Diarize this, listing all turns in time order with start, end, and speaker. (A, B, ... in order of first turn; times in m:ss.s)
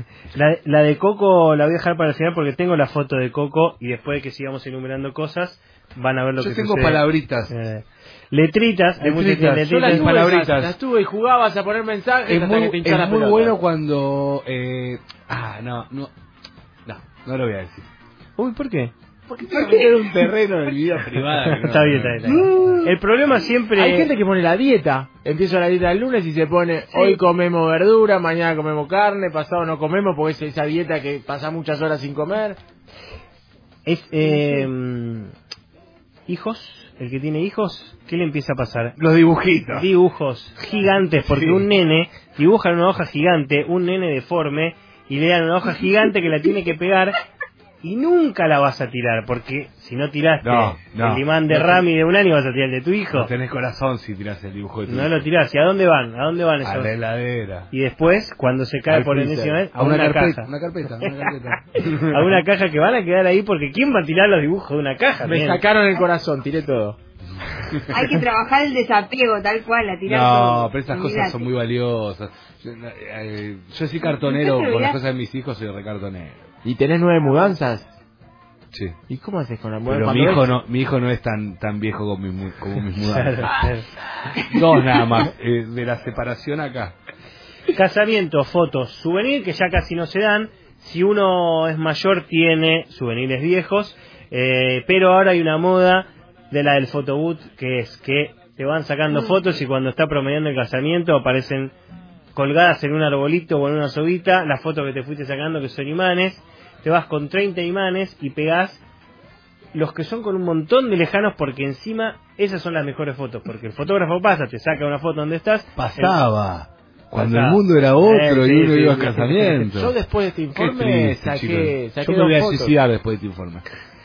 0:00.3-0:10.1 A
0:06.4-0:07.5 B
0:09.0-0:10.7 B
0:09.7-0:13.6 C
0:12.3-0:16.1 B
0:16.9-0:17.9 B
0:18.4-0:18.9 A
0:19.3-0:22.2 B
0:19.5-0:20.2 D
0:21.4-0:24.1 A
0:22.2-0:22.9 D
0:23.8-0:32.6 C
0:33.9-0:35.3 A
0:36.3-0:39.0 A
0:39.0-0:39.9 B
0:39.7-0:47.2 A
0:41.3-0:41.7 B
0:47.8-0:53.3 A
0:50.4-0:51.8 B
0:53.1-0:55.2 B
0:54.9-0:57.0 A
0:56.6-0:57.7 B
0:57.7-1:00.5 A
0:58.9-0:59.6 C
0:59.3-1:02.3 B
1:01.0-1:05.6 A
1:05.2-1:07.0 C
1:07.7-1:08.0 B
1:07.9-1:11.5 D
1:10.0-1:16.5 B
1:14.0-1:15.0 D
1:16.6-1:17.9 C
1:19.1-1:20.6 C
1:19.9-1:23.7 B
1:22.9-1:23.9 A
1:24.3-1:27.0 B
1:27.7-1:41.7 A
1:42.4-1:48.8 A
1:49.7-1:56.2 A
1:55.8-1:59.9 B
1:57.1-1:58.4 A
1:58.3-2:02.8 C
2:00.6-2:03.6 B